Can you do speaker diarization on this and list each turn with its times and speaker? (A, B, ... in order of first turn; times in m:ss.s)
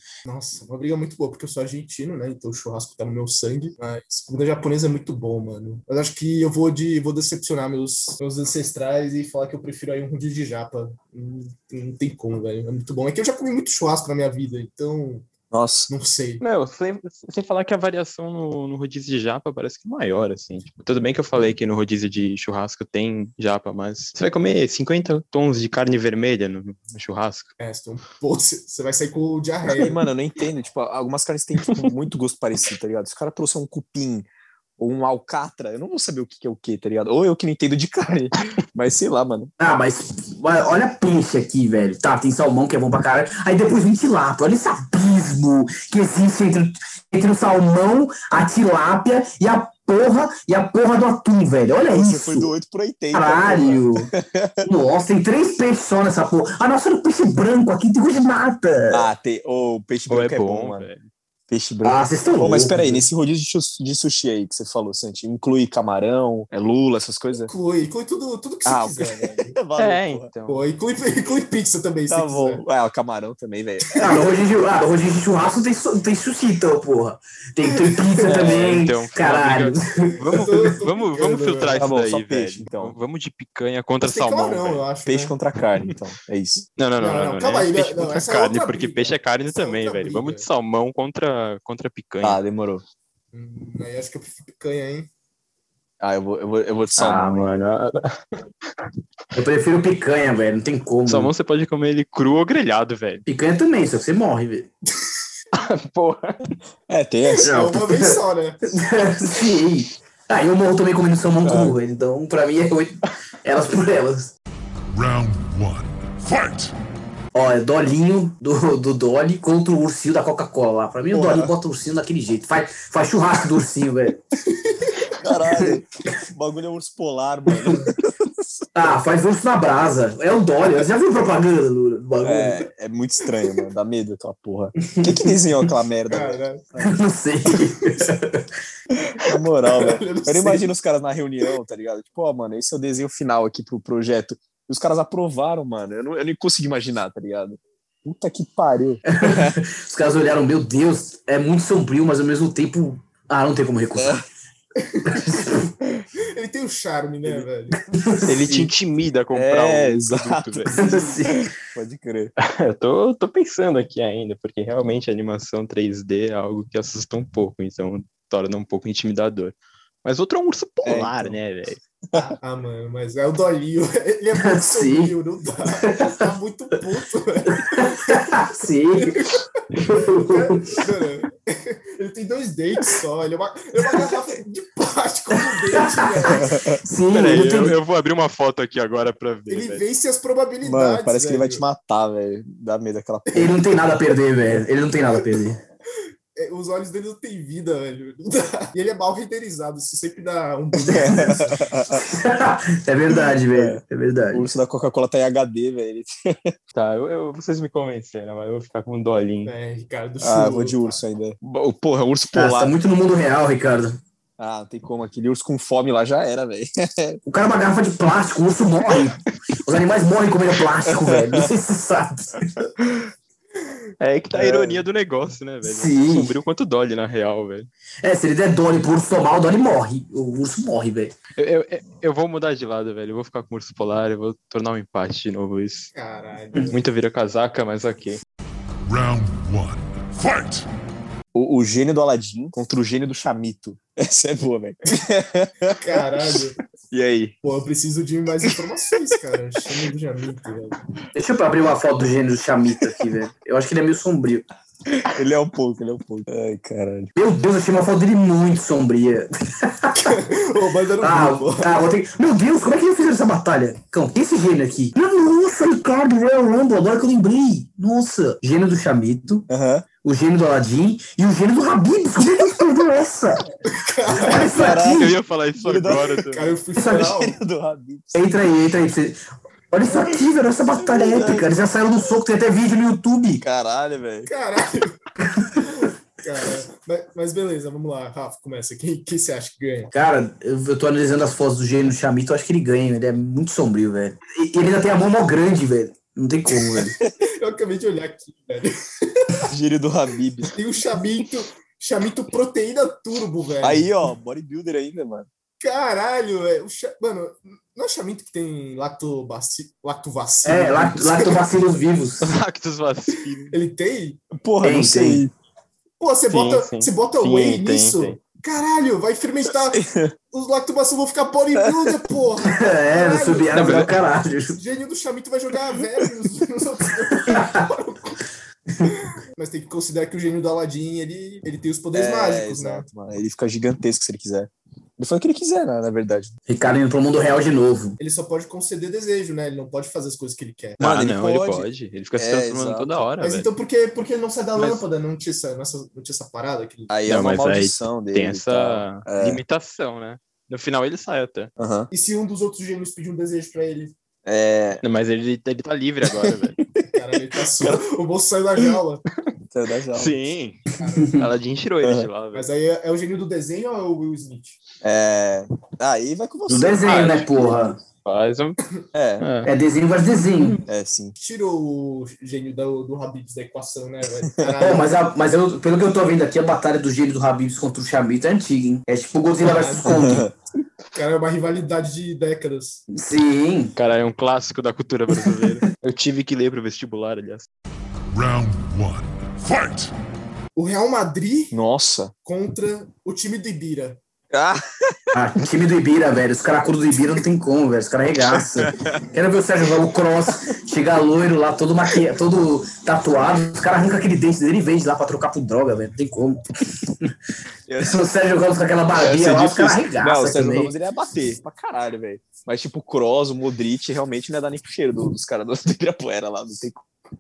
0:00.3-0:15.3 A
0:15.5-0:15.9 B
0:15.9-0:16.4 A
0:16.4-0:27.5 C
0:27.6-0:30.0 A
0:29.8-0:34.3 B
0:34.8-0:39.5 B
0:39.6-0:52.5 D
0:51.9-0:54.7 B
0:53.1-0:54.1 D
0:54.6-0:59.1 D
0:58.9-1:00.9 B
1:00.1-1:01.1 C
1:01.5-1:07.5 B
1:01.8-1:03.1 D
1:07.5-1:09.6 A
1:08.7-1:10.3 B
1:09.8-1:10.6 C
1:10.5-1:12.6 A
1:12.1-1:14.3 B
1:14.0-1:20.4 D
1:17.7-1:18.0 A
1:18.2-1:24.9 C
1:20.3-1:21.9 A
1:21.8-1:23.0 B
1:24.0-1:25.4 A
1:25.1-1:26.7 B
1:26.8-1:32.4 C
1:27.0-1:30.5 A
1:32.2-1:32.8 B
1:33.3-1:35.1 A
1:36.0-1:37.5 B
1:37.0-1:38.2 C
1:39.3-1:41.3 D
1:41.1-1:43.3 C
1:43.3-1:44.7 D
1:45.5-1:46.4 C
1:46.9-1:47.6 B
1:47.4-1:48.2 D
1:47.4-1:48.6 A
1:48.7-1:54.3 D
1:51.4-1:51.8 B
1:54.9-1:56.7 E
1:57.3-2:04.2 D
2:01.1-2:01.6 B
2:04.6-2:05.1 A
2:05.1-2:08.6 B
2:05.5-2:05.8 D
2:08.8-2:12.7 D
2:12.2-2:16.9 B
2:14.9-2:15.4 D
2:16.1-2:16.6 A
2:16.8-2:18.5 D
2:19.1-2:29.6 B
2:19.2-2:20.7 A
2:29.1-2:34.2 D
2:34.0-2:34.2 B
2:34.8-2:35.6 A
2:35.1-2:35.6 D
2:36.4-2:37.8 A
2:37.9-2:38.7 D
2:38.3-2:40.8 C
2:38.3-2:38.7 B
2:39.3-2:42.3 B
2:40.7-2:41.5 D
2:40.8-2:41.1 A
2:42.4-2:51.8 C
2:50.8-2:51.4 B
2:52.1-2:58.4 A
2:54.4-2:55.2 D
2:55.8-2:56.2 D
2:57.5-3:00.8 D
2:59.0-3:06.6 A
3:05.7-3:07.8 D
3:06.3-3:06.8 B
3:07.1-3:09.8 C
3:09.5-3:11.6 A
3:10.6-3:13.6 B
3:13.3-3:15.6 D
3:16.4-3:21.6 A
3:20.9-3:22.0 B
3:21.0-3:21.4 D
3:21.9-3:24.5 D
3:23.5-3:26.5 B
3:26.7-3:29.5 C
3:29.4-3:31.0 A
3:30.2-3:32.7 B
3:32.3-3:34.0 D
3:34.4-3:37.2 B
3:37.2-3:42.7 D
3:40.9-3:41.5 B
3:44.0-3:47.7 C
3:44.4-3:44.8 B
3:45.6-3:46.4 D
3:48.0-3:51.2 D
3:51.4-3:55.9 C
3:56.0-3:56.8 A
3:56.7-3:58.2 C
3:58.8-4:00.7 E
4:01.4-4:07.4 B
4:05.8-4:06.6 A
4:07.4-4:10.8 A
4:11.1-4:14.5 D
4:14.9-4:17.1 B
4:17.2-4:20.2 D
4:20.0-4:21.8 A
4:21.0-4:29.5 D
4:29.5-4:29.9 B
4:30.0-4:33.5 D
4:33.7-4:34.6 A
4:34.2-4:35.1 D
4:34.3-4:38.3 B
4:34.6-4:36.5 C
4:36.3-4:37.4 A
4:36.8-4:37.1 D
4:38.1-4:39.2 D
4:39.7-4:43.4 D
4:40.8-4:41.6 B
4:43.4-4:44.3 B
4:44.3-4:45.0 A
4:45.6-4:49.9 A
4:49.9-4:57.0 D
4:56.8-4:57.1 B
4:57.2-4:59.4 A
4:59.5-5:00.5 B
5:00.5-5:03.9 A
5:03.6-5:05.3 B
5:05.6-5:11.4 A
5:10.4-5:12.3 D
5:12.2-5:13.6 C
5:13.5-5:14.2 A
5:14.3-5:15.3 B
5:14.6-5:15.2 D
5:16.0-5:23.8 A
5:16.3-5:18.2 C
5:19.7-5:20.1 B
5:21.6-5:22.0 B
5:22.5-5:24.6 D
5:23.5-5:23.9 C
5:24.6-5:28.2 A
5:27.3-5:27.7 D
5:28.9-5:32.9 A
5:31.9-5:36.3 B
5:36.5-5:38.0 D
5:38.0-5:40.8 A
5:40.8-5:41.7 B
5:40.8-5:43.5 C
5:42.2-5:43.0 B
5:43.2-5:46.9 A
5:46.9-5:49.4 B
5:47.1-5:51.5 C
5:51.6-5:51.9 B
5:51.9-5:53.9 A
5:54.2-5:54.8 B
5:54.8-5:56.6 C
5:56.1-5:56.9 B
5:56.9-5:59.0 A
5:57.6-5:57.8 B
5:59.5-6:00.2 B
5:59.9-6:02.5 C
6:00.8-6:01.2 A
6:01.0-6:01.2 D
6:01.8-6:02.1 B
6:02.3-6:04.6 A
6:04.8-6:07.3 B
6:06.5-6:07.8 D
6:06.8-6:08.6 C
6:08.9-6:09.3 B
6:09.2-6:09.5 C
6:09.4-6:10.6 D
6:10.7-6:11.2 B
6:11.2-6:14.9 A
6:14.6-6:20.3 D
6:19.4-6:20.2 A
6:19.8-6:20.3 B
6:20.9-6:22.8 A
6:23.0-6:23.7 D
6:23.8-6:27.5 C
6:28.1-6:29.9 E
6:30.6-6:31.6 A
6:31.5-6:32.1 B
6:32.2-6:34.0 A
6:34.3-6:35.1 B
6:35.1-6:47.2 D
6:38.2-6:39.0 B
6:47.7-6:48.0 B
6:47.8-6:50.7 D
6:49.0-6:56.9 B